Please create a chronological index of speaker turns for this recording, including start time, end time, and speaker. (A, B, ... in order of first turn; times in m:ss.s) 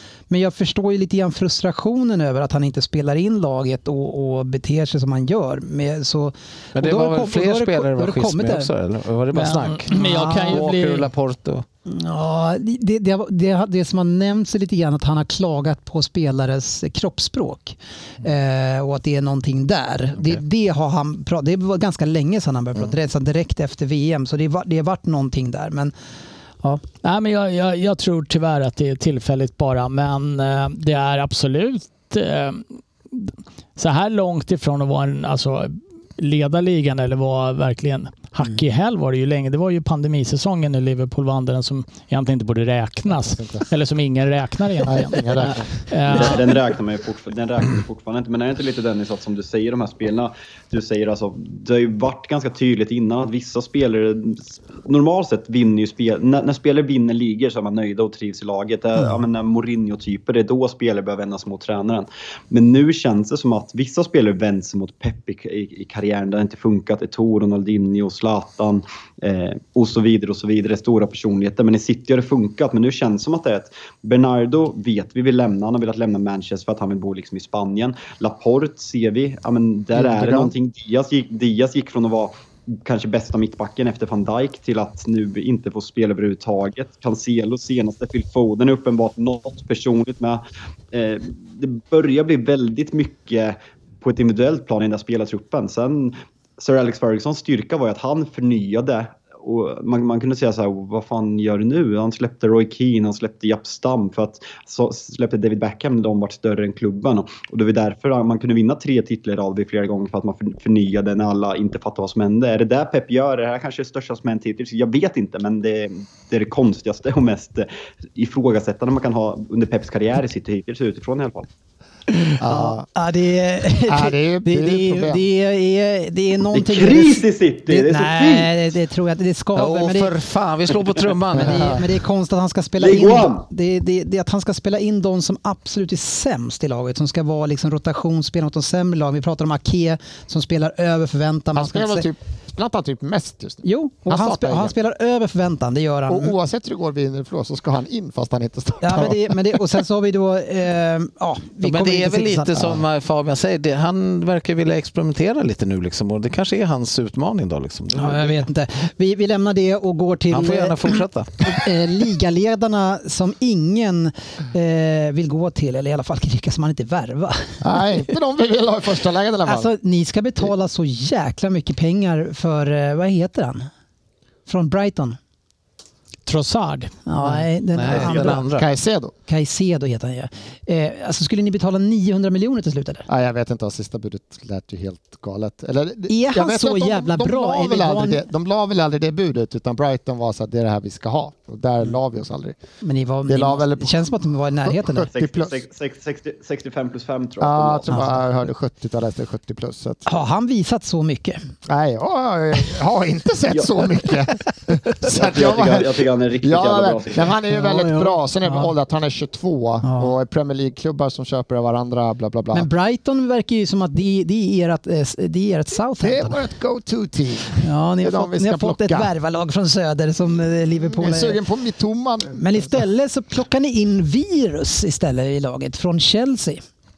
0:00.3-0:08.7 A
0:06.8-0:11.6 B
0:09.3-0:11.1 C
0:09.9-0:10.6 A
0:11.8-0:25.9 A
0:27.0-0:46.6 C
0:43.2-0:43.6 D
0:44.8-0:45.8 D
0:46.1-1:30.4 E
1:20.0-1:20.5 D
1:30.9-2:01.5 E
2:02.1-2:10.1 A
2:02.4-2:02.8 D
2:03.8-2:05.2 D
2:06.5-2:08.5 E
2:09.5-2:11.8 B
2:11.4-2:22.0 A
2:12.8-2:13.4 E
2:21.5-2:24.7 D
2:23.6-2:26.3 A
2:26.1-2:29.6 D
2:28.8-2:32.8 A
2:31.6-2:38.4 B
2:38.0-2:47.6 A
2:40.3-2:41.5 B
2:47.6-2:49.7 D
2:49.4-2:53.7 A
2:54.4-2:55.2 A
2:56.2-2:57.0 C
2:57.0-2:58.5 A
2:57.2-2:58.7 B
2:57.9-2:59.1 D
2:59.3-3:03.1 A
3:03.1-3:12.6 D
3:06.1-3:08.3 A
3:12.8-3:15.1 A
3:13.3-3:15.5 D
3:15.1-3:17.9 E
3:17.4-3:20.0 D
3:17.9-3:18.2 A
3:20.0-3:21.4 A
3:21.7-3:32.7 D
3:25.1-3:27.3 E
3:27.5-3:28.7 A
3:29.8-3:30.1 A
3:32.5-3:36.4 A
3:36.0-3:39.1 D
3:37.6-3:41.4 A
3:41.0-3:42.7 D
3:42.4-3:46.6 A